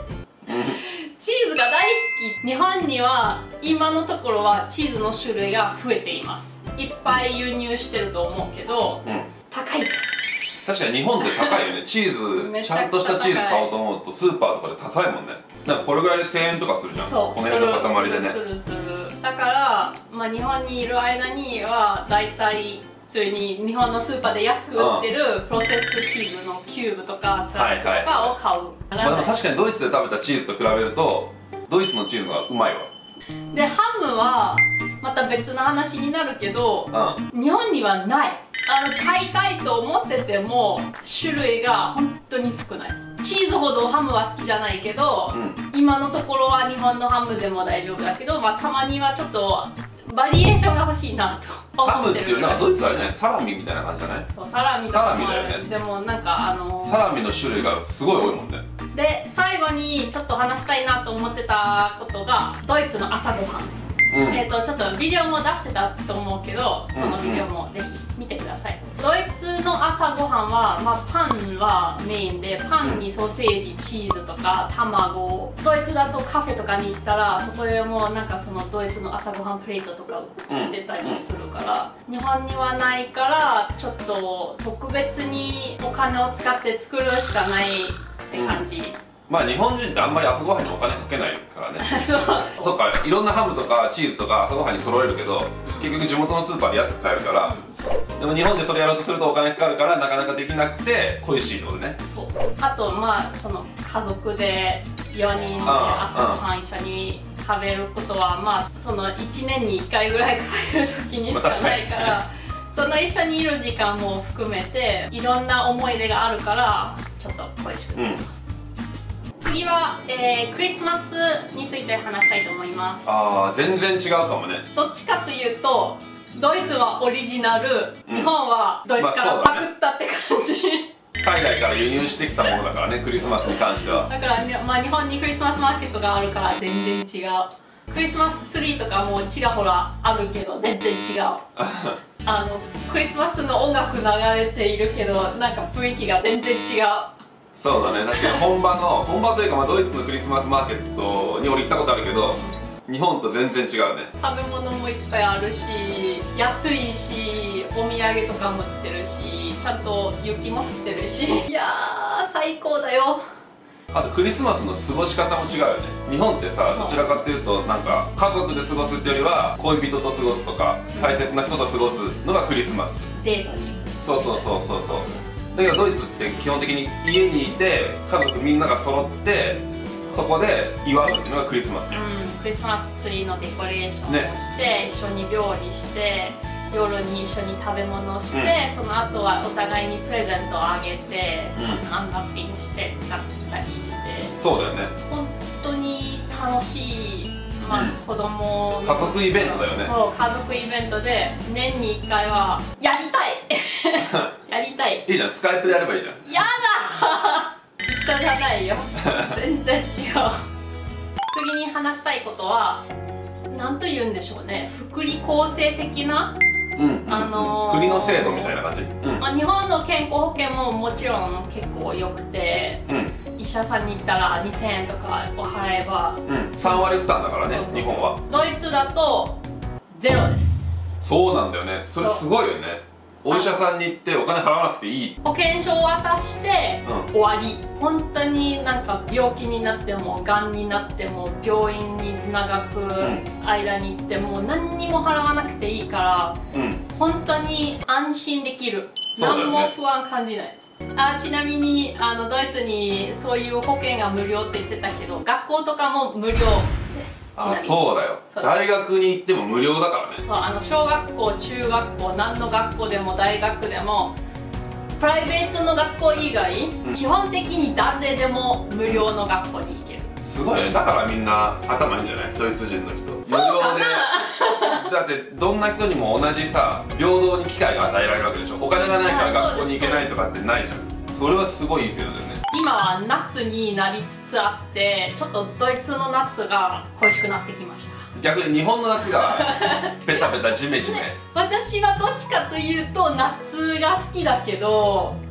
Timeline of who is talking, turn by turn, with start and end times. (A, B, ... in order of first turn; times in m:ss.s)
0:00.4-0:00.8 A
0:00.7-0:10.6 B
0:10.6-0:18.4 A
0:11.2-0:11.6 B
0:12.4-0:13.7 B
0:16.9-0:29.4 B
0:24.8-0:25.1 A
0:27.5-0:28.3 A
0:29.0-0:32.9 A
0:33.5-0:52.7 B
0:36.9-0:37.2 A
0:45.3-0:45.6 A
0:51.8-0:54.3 A
0:54.3-0:57.0 B
0:54.9-0:55.6 A
0:56.8-0:58.6 A
0:58.9-1:29.0 B
1:04.1-1:04.4 A
1:06.9-1:07.4 A
1:20.5-1:21.2 A
1:28.3-1:28.6 A
1:29.3-1:37.6 A
1:31.8-1:32.8 B
1:35.6-1:36.0 B
1:37.3-1:38.3 B
1:38.2-1:42.0 A
1:42.1-1:58.4 B
1:45.6-1:46.4 A
1:51.3-1:52.2 A
1:58.0-1:58.2 A
1:59.4-2:03.1 B
2:03.0-2:04.6 A
2:04.7-2:10.9 B
2:08.1-2:08.3 A
2:09.0-2:09.7 A
2:11.2-2:14.1 A
2:14.0-2:21.4 B
2:21.6-2:22.0 A
2:22.2-2:27.2 B
2:27.5-2:34.1 A
2:28.0-2:28.4 B
2:34.2-2:43.2 B
2:43.9-2:53.2 A
2:46.7-2:47.1 B
2:50.9-2:51.3 B
2:53.2-2:54.4 B
2:54.0-3:02.0 A
3:01.9-3:14.4 B
3:11.6-3:11.8 A
3:14.4-3:14.9 A
3:15.0-3:25.0 B
3:17.7-3:18.0 A
3:18.8-3:19.9 A
3:25.0-3:26.2 A
3:26.2-3:30.3 B
3:29.0-3:29.3 A
3:31.3-3:32.8 B
3:33.5-3:36.4 B
3:36.8-3:39.2 A
3:37.1-3:38.5 B
3:39.2-3:49.4 B
3:42.9-3:43.2 A
3:46.3-3:48.2 A
3:49.9-3:51.0 B
3:51.0-3:55.2 A
3:52.0-3:52.2 B
3:53.3-3:53.6 B
3:55.2-4:06.4 B
4:06.5-4:06.8 A
4:06.9-4:18.5 B
4:09.2-4:09.7 A
4:17.4-4:20.2 A
4:20.2-4:24.2 B
4:25.0-4:30.1 B
4:30.2-4:42.4 A
4:33.3-4:34.8 B
4:39.0-4:40.2 B
4:42.5-4:48.1 B
4:48.1-4:51.2 A
4:49.2-4:49.9 B
4:51.2-4:55.2 B